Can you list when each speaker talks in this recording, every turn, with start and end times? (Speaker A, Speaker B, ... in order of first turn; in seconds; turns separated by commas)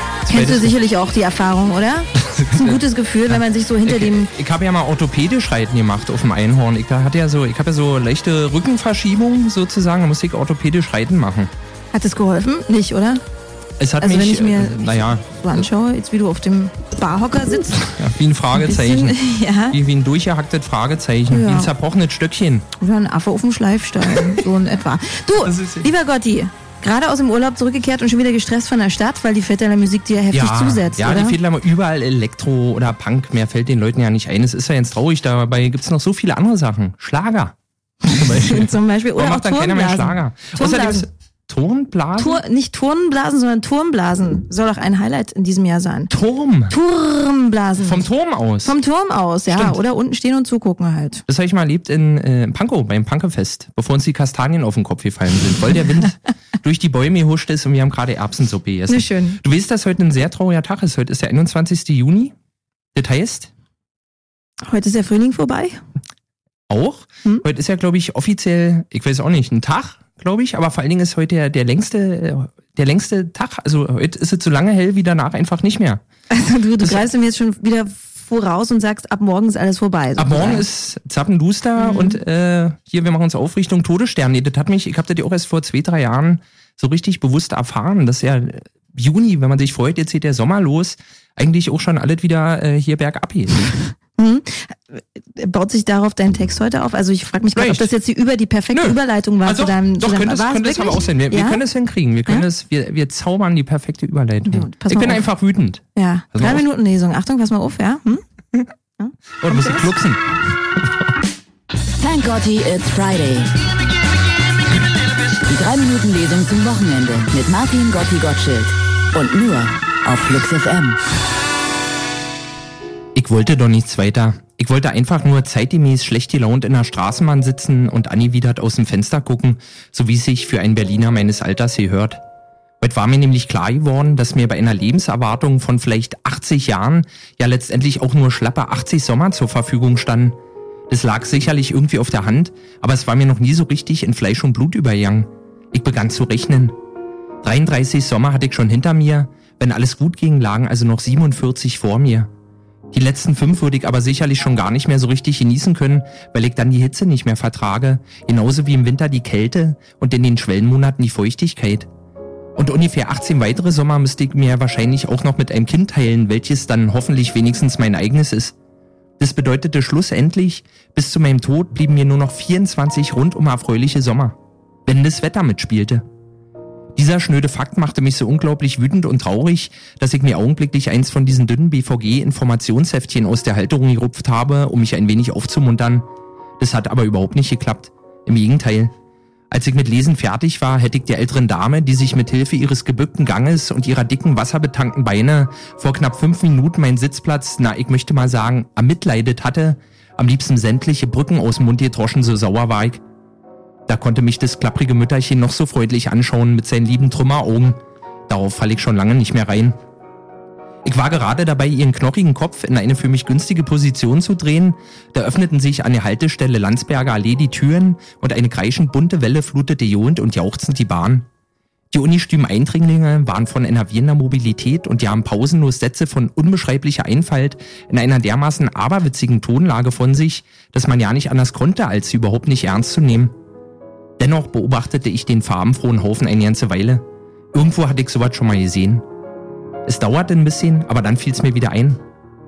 Speaker A: 0.2-0.7, Speaker B: 0.3-4.3, Speaker A: 2.1-11.5, Speaker B: 11.9-13.2, Speaker A: 13.8-15.7, Speaker B: 14.0-17.9, Speaker A: 17.8-22.6, Speaker B: 18.5-19.8, Speaker B: 21.3-21.7, Speaker B: 22.8-31.4, Speaker A: 24.0-24.4, Speaker A: 25.4-25.9, Speaker A: 30.3-37.5, Speaker B: 38.0-41.1, Speaker A: 38.0-42.4, Speaker B: 42.2-46.1, Speaker A: 46.1-46.7, Speaker B: 46.7-48.1, Speaker A: 47.8-48.7, Speaker B: 48.6-51.2, Speaker A: 49.5-49.8, Speaker A: 51.3-62.3, Speaker B: 58.9-59.4, Speaker A: 62.9-63.5, Speaker B: 64.6-65.8, Speaker A: 66.7-76.0, Speaker B: 76.3-80.6, Speaker A: 80.2-93.7, Speaker B: 81.8-82.2, Speaker B: 94.2-101.6, Speaker A: 97.5-97.9, Speaker A: 98.7-105.8, Speaker B: 104.5-105.3, Speaker B: 105.9-108.2, Speaker A: 106.3-106.6, Speaker B: 109.0-109.9, Speaker A: 109.4-110.2, Speaker A: 110.8-111.1, Speaker C: 112.0-113.6, Speaker C: 115.4-121.0, Speaker A: 123.1-132.2, Speaker A: 132.8-140.3, Speaker A: 140.9-146.7, Speaker A: 147.4-152.3, Speaker A: 152.9-161.9, Speaker A: 162.6-168.5, Speaker A: 169.2-176.0, Speaker A: 176.9-186.0, Speaker A: 186.6-188.9, Speaker A: 189.5-203.0, Speaker A: 203.9-207.8, Speaker A: 208.3-209.8, Speaker A: 210.8-221.2, Speaker A: 221.9-233.3, Speaker A: 234.2-239.0, Speaker A: 239.8-242.0